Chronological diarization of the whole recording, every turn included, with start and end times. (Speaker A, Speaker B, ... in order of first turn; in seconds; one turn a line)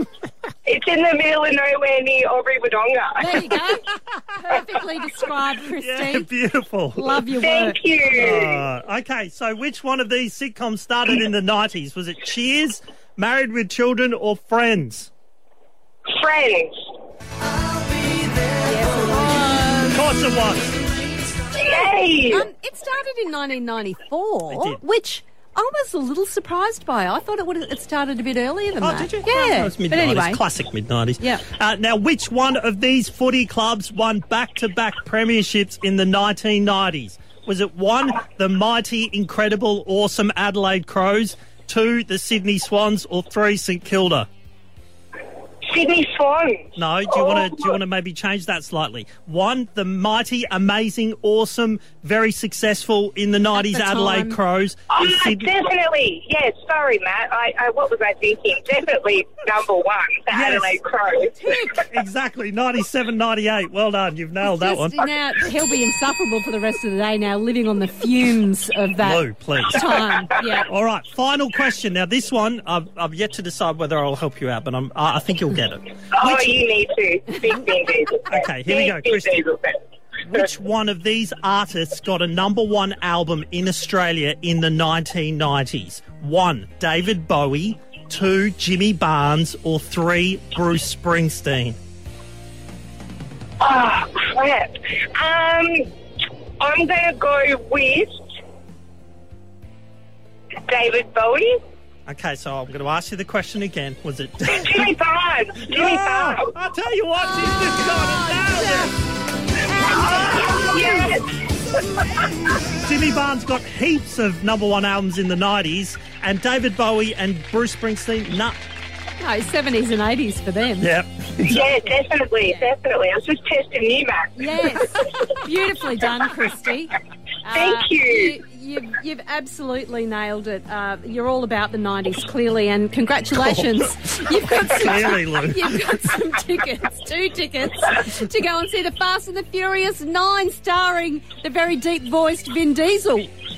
Speaker A: 0.7-3.5
Speaker B: 3.2-6.3
Speaker C: 5.8-7.3
Speaker B: 6.9-7.8
Speaker A: 7.4-8.6
Speaker C: 8.1-15.1
Speaker A: 16.1-16.8
Speaker B: 18.6-20.0
Speaker C: 19.9-20.7
Speaker A: 21.5-22.5
Speaker B: 22.3-30.4
Speaker C: 24.5-24.8
Speaker C: 28.8-44.3
Speaker A: 45.6-46.7
Speaker C: 46.8-55.6
Speaker A: 47.2-47.5
Speaker B: 53.5-54.4
Speaker A: 54.9-61.6
Speaker C: 60.3-60.8
Speaker B: 61.4-61.9
Speaker C: 61.8-65.0
Speaker B: 64.4-70.7
Speaker C: 69.0-69.8
Speaker C: 70.7-76.7
Speaker A: 76.1-79.8
Speaker C: 78.2-79.5
Speaker C: 80.2-91.8
Speaker A: 93.6-95.9
Speaker A: 96.6-98.1
Speaker A: 100.7-101.6
Speaker C: 102.1-105.0
Speaker A: 104.5-106.5
Speaker C: 105.6-108.9
Speaker B: 107.3-108.9
Speaker B: 109.7-111.0
Speaker C: 109.9-111.2
Speaker A: 110.6-111.3
Speaker C: 112.8-118.6
Speaker B: 119.2-120.9
Speaker C: 120.8-121.8
Speaker A: 121.5-124.3
Speaker B: 122.4-122.7
Speaker B: 124.4-143.3
Speaker A: 127.5-128.4
Speaker C: 133.4-133.7
Speaker C: 134.5-135.7